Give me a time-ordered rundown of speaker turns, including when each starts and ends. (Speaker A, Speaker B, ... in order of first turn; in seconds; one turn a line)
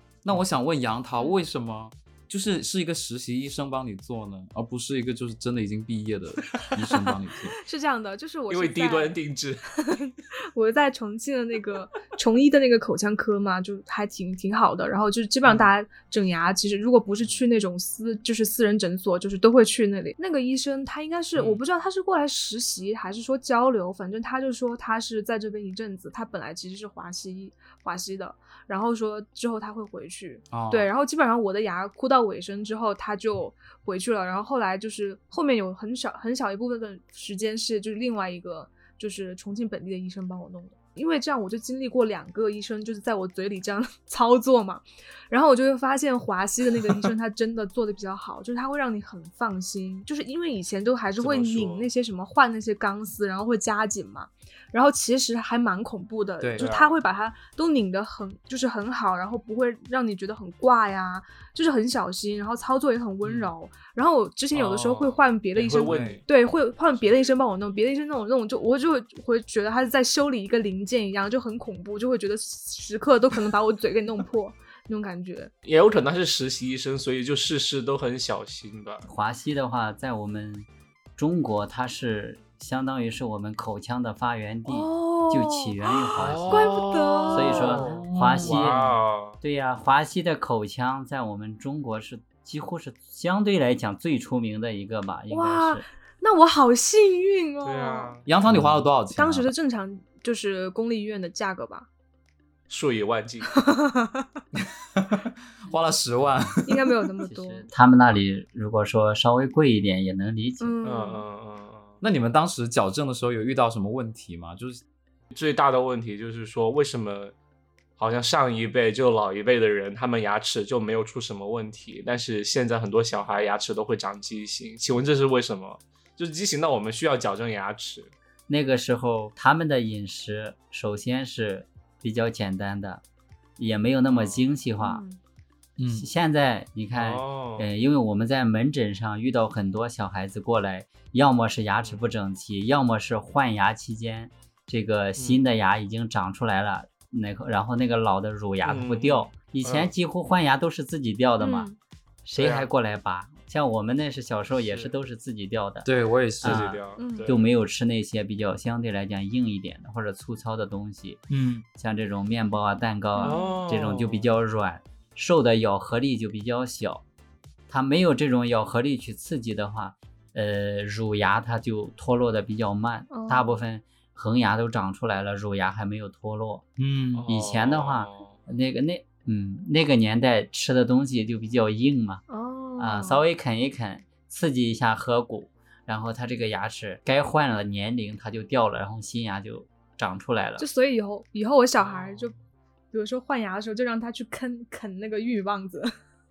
Speaker A: 0.2-7.6
Speaker B: 7.5-9.2
Speaker C: 8.5-9.7
Speaker B: 9.8-75.5
Speaker A: 30.5-30.9
Speaker C: 51.2-51.9
Speaker A: 56.4-56.7
Speaker C: 56.5-57.0
Speaker A: 63.2-63.5
Speaker C: 64.5-66.2
Speaker A: 65.8-66.2
Speaker C: 66.9-67.3
Speaker C: 75.6-79.0
Speaker D: 79.0-86.7
Speaker B: 84.7-87.8
Speaker C: 86.1-89.4
Speaker D: 87.3-88.8
Speaker A: 87.8-88.9
Speaker D: 89.4-95.8
Speaker B: 95.3-98.2
Speaker C: 97.6-98.3
Speaker A: 98.3-99.5
Speaker D: 98.5-98.8
Speaker B: 99.1-101.9
Speaker C: 102.7-103.5
Speaker B: 103.5-104.3
Speaker A: 104.5-106.9
Speaker B: 106.7-107.7
Speaker D: 107.2-110.7
Speaker B: 110.6-111.2
Speaker C: 110.8-112.0
Speaker A: 112.0-114.8
Speaker C: 115.3-117.3
Speaker C: 118.0-128.1
Speaker D: 128.5-133.0
Speaker D: 133.6-135.0
Speaker C: 134.1-134.5
Speaker B: 134.8-135.2
Speaker A: 135.8-136.1
Speaker D: 135.9-151.7
Speaker C: 136.9-137.7
Speaker C: 141.8-142.1
Speaker C: 145.2-145.5
Speaker C: 148.6-149.9
Speaker B: 151.4-151.8
Speaker D: 152.2-155.9
Speaker C: 152.4-152.7
Speaker C: 154.5-155.0
Speaker A: 155.8-156.7
Speaker C: 156.4-157.4
Speaker D: 156.4-161.2
Speaker B: 157.0-157.3
Speaker A: 161.3-161.7
Speaker D: 161.8-167.0
Speaker B: 163.2-163.6
Speaker C: 163.2-164.3
Speaker D: 167.7-176.6
Speaker B: 173.1-173.6
Speaker A: 176.8-177.2
Speaker C: 177.1-178.4
Speaker D: 177.3-182.2
Speaker B: 182.3-183.2
Speaker D: 182.8-190.6
Speaker B: 190.6-192.3
Speaker C: 191.8-192.3
Speaker B: 192.9-195.9